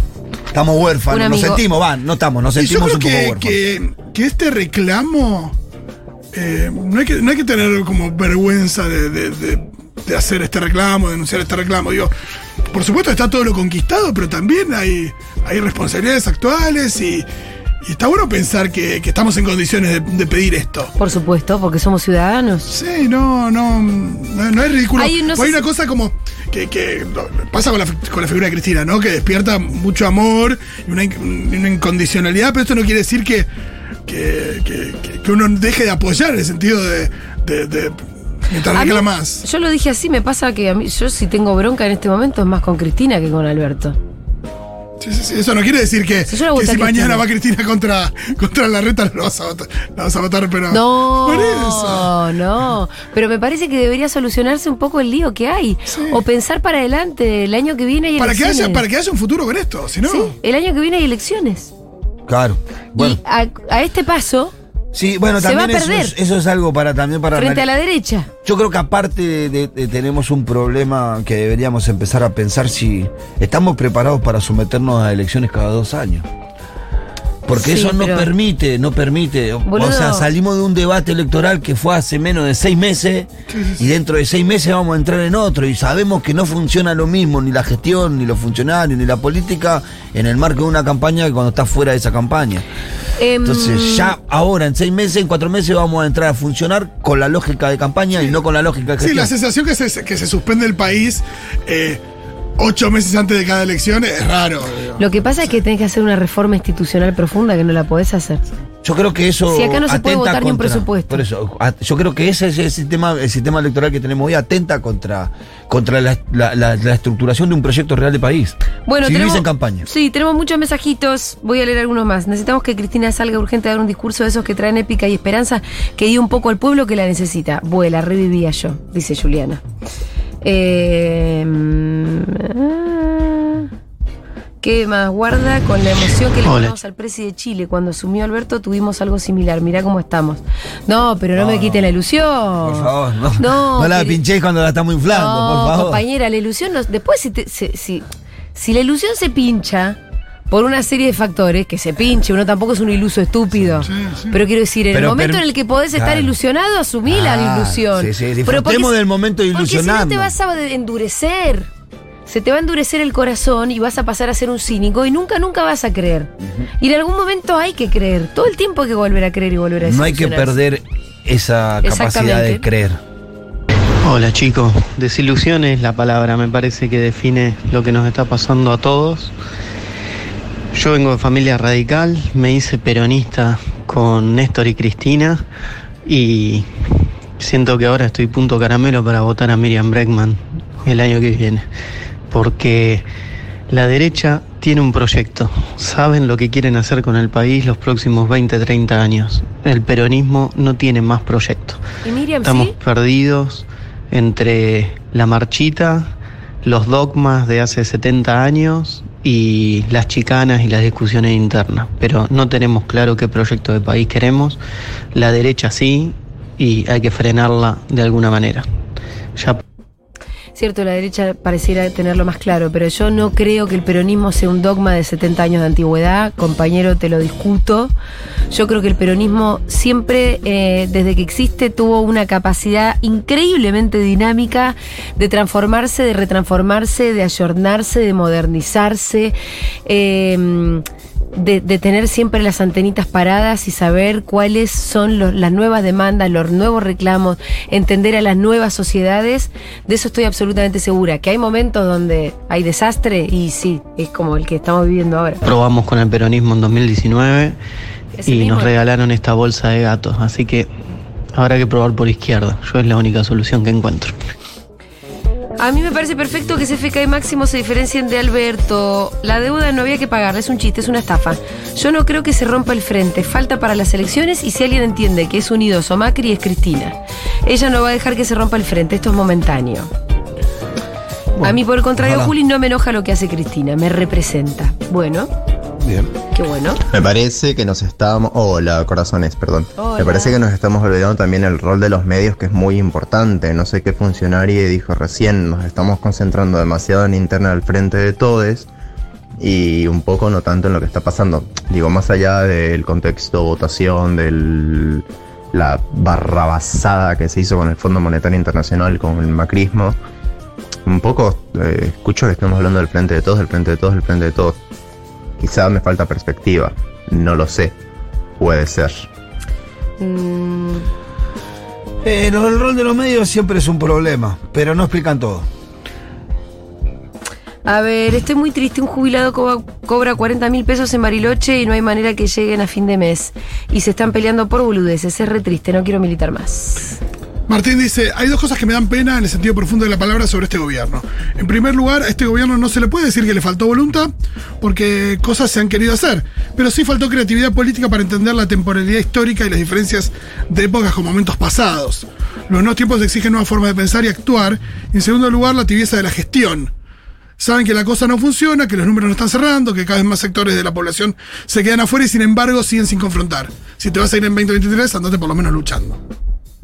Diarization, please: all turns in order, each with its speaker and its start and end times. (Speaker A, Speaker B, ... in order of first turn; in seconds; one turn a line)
Speaker A: 0.5-3.6
Speaker B: 1.1-1.6
Speaker C: 2.6-5.6
Speaker C: 6.3-12.1
Speaker C: 12.7-17.3
Speaker C: 17.8-20.9
Speaker B: 21.0-22.7
Speaker C: 22.7-33.5
Speaker B: 25.0-25.6
Speaker C: 34.1-39.4
Speaker B: 38.7-44.0
Speaker C: 45.0-52.1
Speaker B: 46.3-47.2
Speaker B: 50.7-58.8
Speaker C: 55.9-56.2
Speaker C: 58.2-60.3
Speaker B: 60.1-61.7
Speaker A: 62.3-63.2
Speaker B: 63.0-64.5
Speaker A: 64.9-67.7
Speaker B: 65.4-66.2
Speaker B: 67.3-68.3
Speaker A: 68.4-76.3
Speaker A: 77.5-92.7
Speaker B: 77.5-78.3
Speaker B: 79.7-80.3
Speaker C: 83.5-83.8
Speaker B: 93.2-94.1
Speaker A: 93.4-99.3
Speaker C: 99.0-102.0
Speaker C: 102.6-105.0
Speaker B: 105.0-108.4
Speaker A: 108.8-119.9
Speaker B: 109.5-111.2
Speaker B: 118.9-129.6
Speaker B: 130.4-133.7
Speaker B: 134.6-144.2
Speaker D: 136.4-136.8
Speaker A: 141.3-142.0
Speaker A: 142.6-146.0
Speaker B: 145.1-150.0
Speaker B: 150.5-158.9
Speaker A: 153.5-153.9
Speaker C: 153.8-154.4
Speaker A: 154.9-156.3
Speaker A: 157.1-160.3
Speaker B: 159.5-161.7
Speaker B: 162.3-170.6
Speaker A: 166.4-166.7
Speaker A: 169.8-173.0
Speaker B: 171.8-172.7
Speaker D: 174.0-179.3
Speaker D: 180.7-185.4
Speaker D: 186.1-186.7
Speaker D: 187.4-191.7
Speaker D: 192.3-193.1
Speaker D: 193.7-201.8
Speaker B: 202.0-202.8
Speaker D: 202.4-206.1
Speaker D: 206.6-214.6
Speaker D: 215.1-218.7
Speaker D: 219.4-219.6
Speaker B: 220.6-227.9
Speaker B: 228.5-239.3
Speaker B: 239.9-255.4
Speaker D: 255.4-257.6
Speaker B: 258.2-258.7
Speaker D: 258.2-260.7
Speaker D: 261.3-264.2
Speaker B: 265.6-279.9
Speaker A: 281.4-282.3
Speaker B: 281.4-285.3
Speaker A: 285.8-286.1
Speaker B: 286.3-286.8
Speaker E: 286.9-298.7
Speaker B: 289.8-290.4
Speaker E: 299.4-310.0
Speaker E: 310.9-314.6
Speaker E: 315.4-317.8
Speaker E: 318.4-319.1
Speaker B: 320.0-320.9
Speaker A: 322.0-325.5
Speaker B: 327.7-337.0
Speaker C: 337.5-356.7
Speaker C: 357.4-366.0